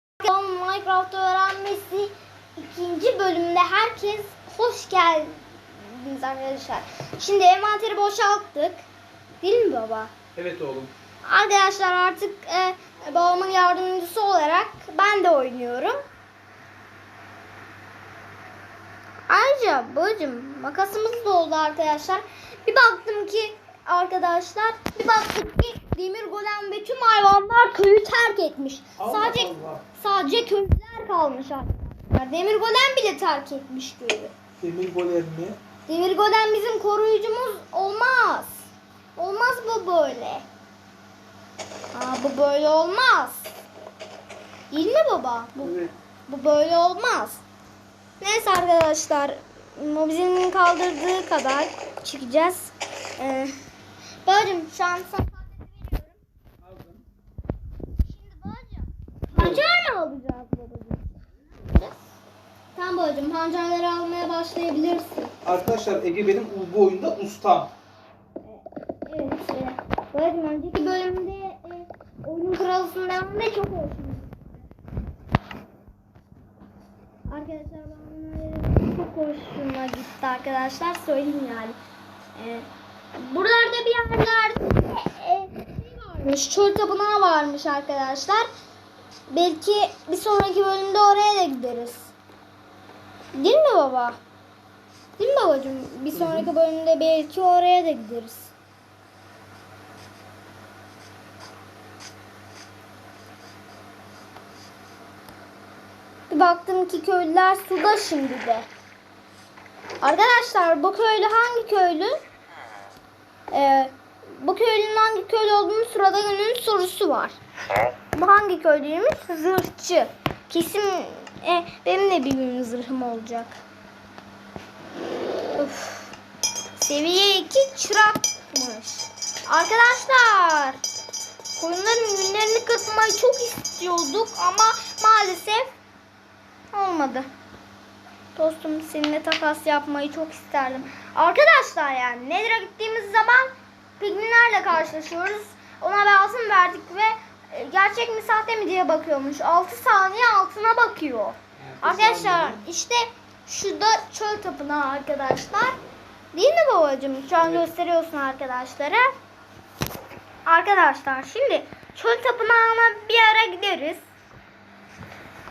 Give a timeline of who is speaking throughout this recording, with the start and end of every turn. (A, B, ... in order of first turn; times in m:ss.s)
0:00.2-0:08.8 A
0:09.4-0:10.1 A
0:10.4-0:10.9 B
0:11.2-0:16.0 A
0:19.3-0:34.3 A
0:29.0-0:29.8 B
0:34.6-0:35.6 B
0:35.9-0:40.4 A
0:41.9-0:43.5 A
0:44.7-0:47.4 A
0:45.6-0:45.9 B
0:48.2-0:53.6 A
0:54.2-0:56.2 A
0:56.6-0:57.0 B
0:58.0-1:01.1 A
0:59.4-0:59.6 B
1:01.6-1:02.0 A
1:02.8-1:05.3 A
1:05.4-1:07.7 B
1:08.4-1:14.4 A
1:17.3-1:21.8 A
1:22.4-1:28.5 A
1:29.3-1:32.1 A
1:33.4-1:34.2 A
1:35.2-1:38.5 A
1:36.1-1:36.5 B
1:46.3-1:48.7 A
1:50.0-1:52.2 A
1:53.5-1:57.4 A
1:58.1-2:03.6 A
2:05.6-2:06.1 A
2:06.8-2:10.8 A
2:11.6-2:15.8 A
2:16.7-2:17.3 A
2:18.4-2:35.8 A
2:31.6-2:32.6 B
2:36.3-2:39.1 A
2:37.4-2:37.7 B
2:40.5-2:44.0 A